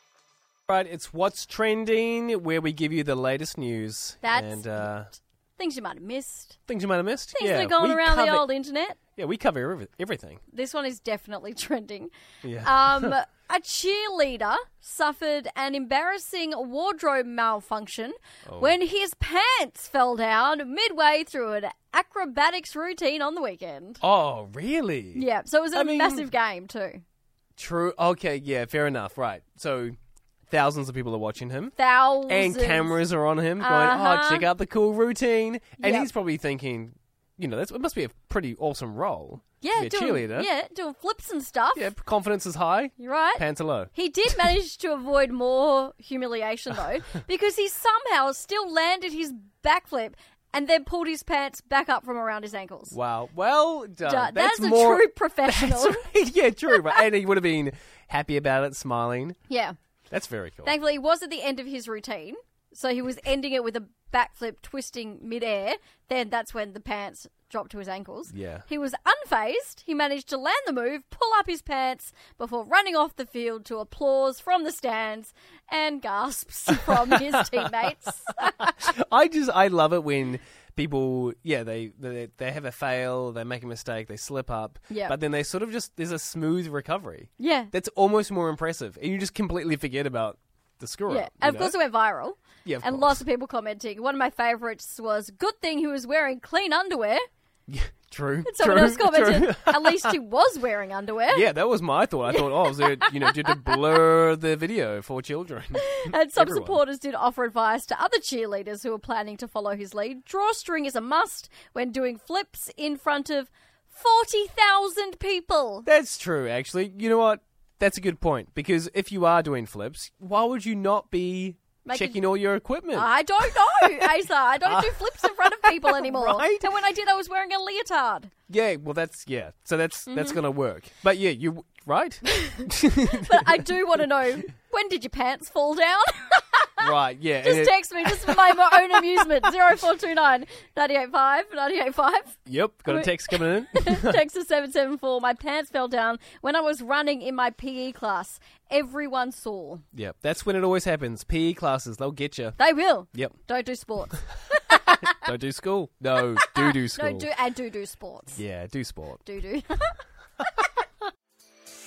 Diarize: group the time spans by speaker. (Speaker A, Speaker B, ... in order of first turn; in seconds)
Speaker A: 0.7-5.1, 6.7-8.5, 9.2-10.4, 12.4-13.1, 18.4-18.8, 24.0-26.3, 27.6-29.9, 30.5-31.7, 32.3-40.5, 41.7-43.9, 52.9-59.4, 60.1-60.8, 68.3-68.7, 76.7-91.8, 92.6-93.2, 97.7-100.2, 101.3-106.8, 115.8-126.7, 128.5-133.8, 136.8-139.5, 142.4-144.2, 149.9-152.6, 154.7-157.3, 158.3-159.2
Speaker B: 4.2-6.6, 7.3-9.0, 10.5-24.0, 25.1-27.0, 31.8-33.0, 33.6-34.5, 35.8-36.1, 39.6-41.9, 43.0-52.9, 54.0-56.0, 59.5-59.8, 60.6-78.8, 84.9-85.2, 87.4-87.7, 91.1-97.2, 98.4-101.5, 102.3-103.7, 105.8-115.9, 121.8-122.2, 122.9-128.3, 130.1-130.4, 132.4-136.9, 137.4-149.8, 152.6-155.2, 156.3-158.4, 159.2-160.0